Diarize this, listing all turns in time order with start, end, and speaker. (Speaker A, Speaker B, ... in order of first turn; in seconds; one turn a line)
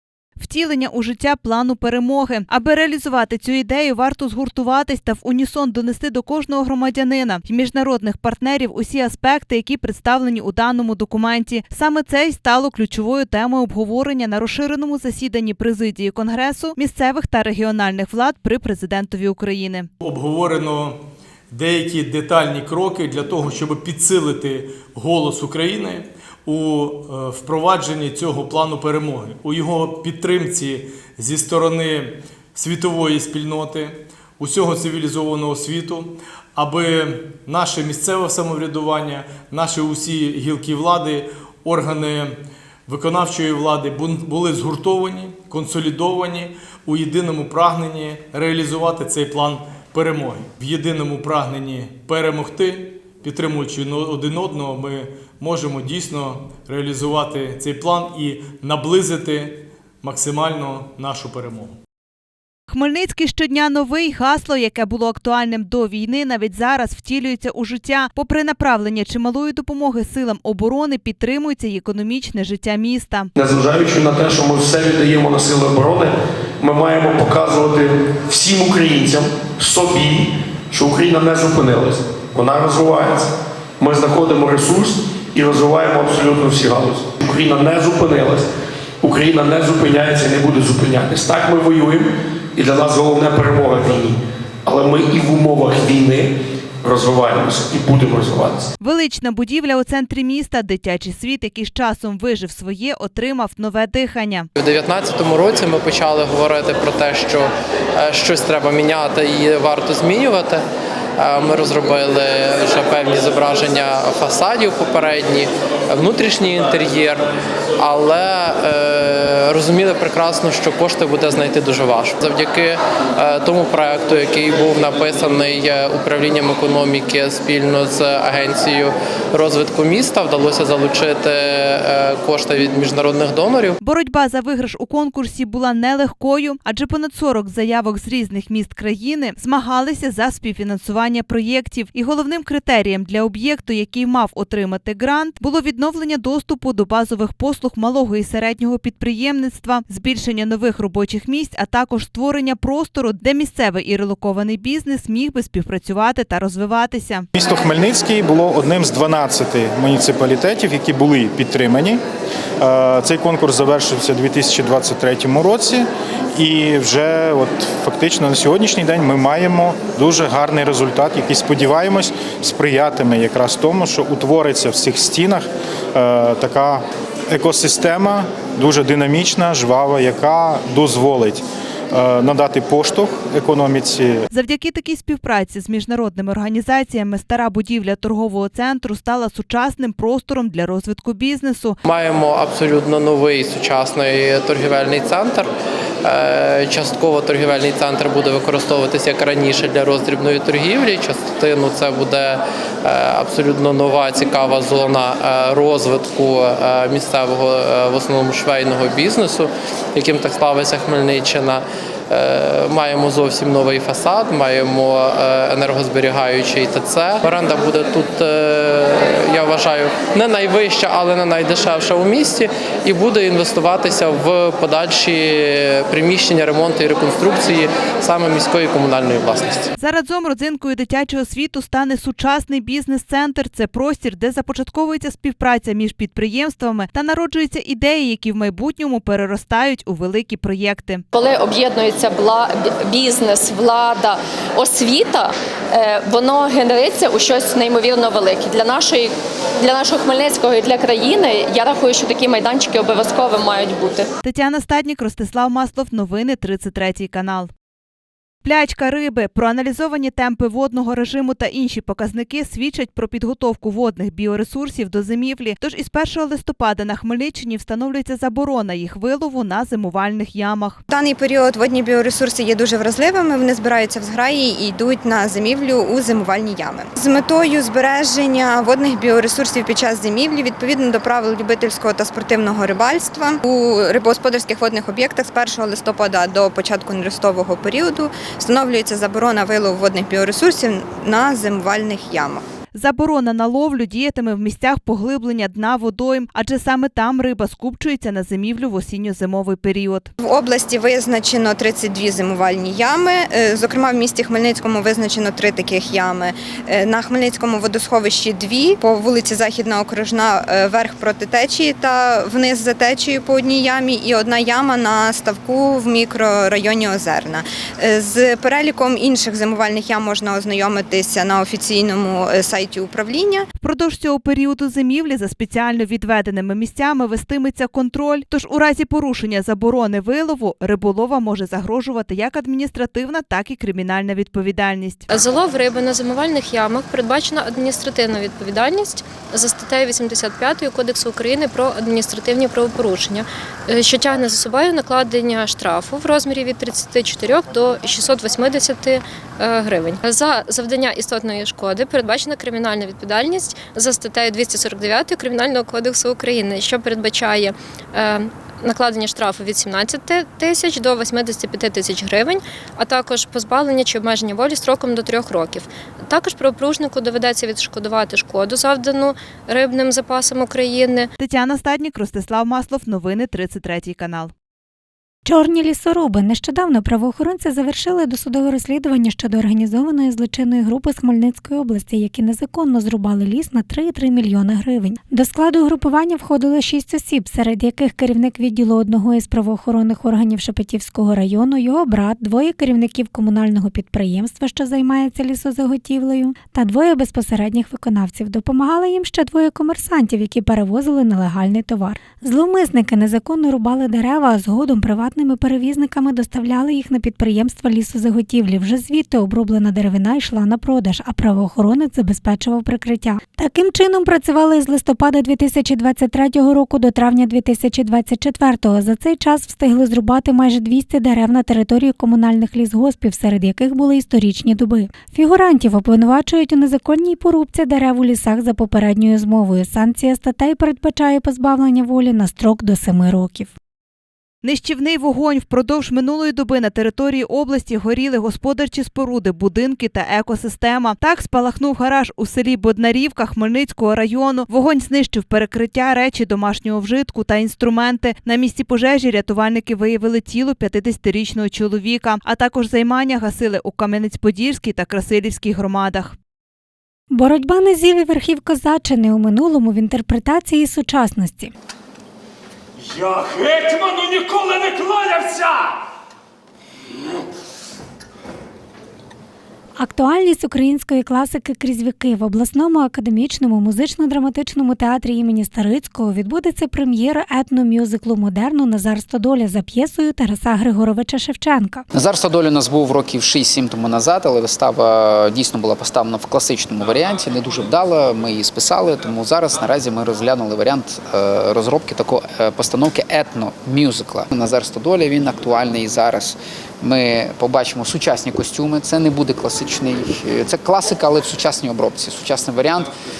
Speaker A: 0.4-19.9
Speaker B: 20.0-61.8
Speaker A: 62.7-73.3
Speaker C: 73.3-88.5
Speaker C: 89.0-98.7
Speaker A: 98.8-104.5
Speaker D: 104.6-110.6
Speaker D: 111.2-117.2
Speaker D: 117.8-133.8
Speaker A: 133.8-157.2
Speaker E: 157.3-162.0
Speaker E: 162.6-184.3
Speaker A: 184.3-191.8
Speaker D: 191.8-195.5
Speaker D: 196.0-229.7
Speaker A: 229.8-241.0
Speaker F: 241.1-254.1
Speaker A: 254.2-257.5
Speaker A: 258.4-270.8
Speaker G: 270.9-292.4
Speaker A: 292.7-300.1
Speaker G: 300.2-323.5
Speaker A: 323.6-335.1
Speaker H: 335.1-371.1
Speaker A: 371.2-374.3
Speaker I: 375.2-433.5
Speaker A: 434.4-456.1
Speaker I: 457.1-461.5
Speaker J: 463.1-465.4
Speaker I: 469.8-481.8
Speaker K: 481.9-502.9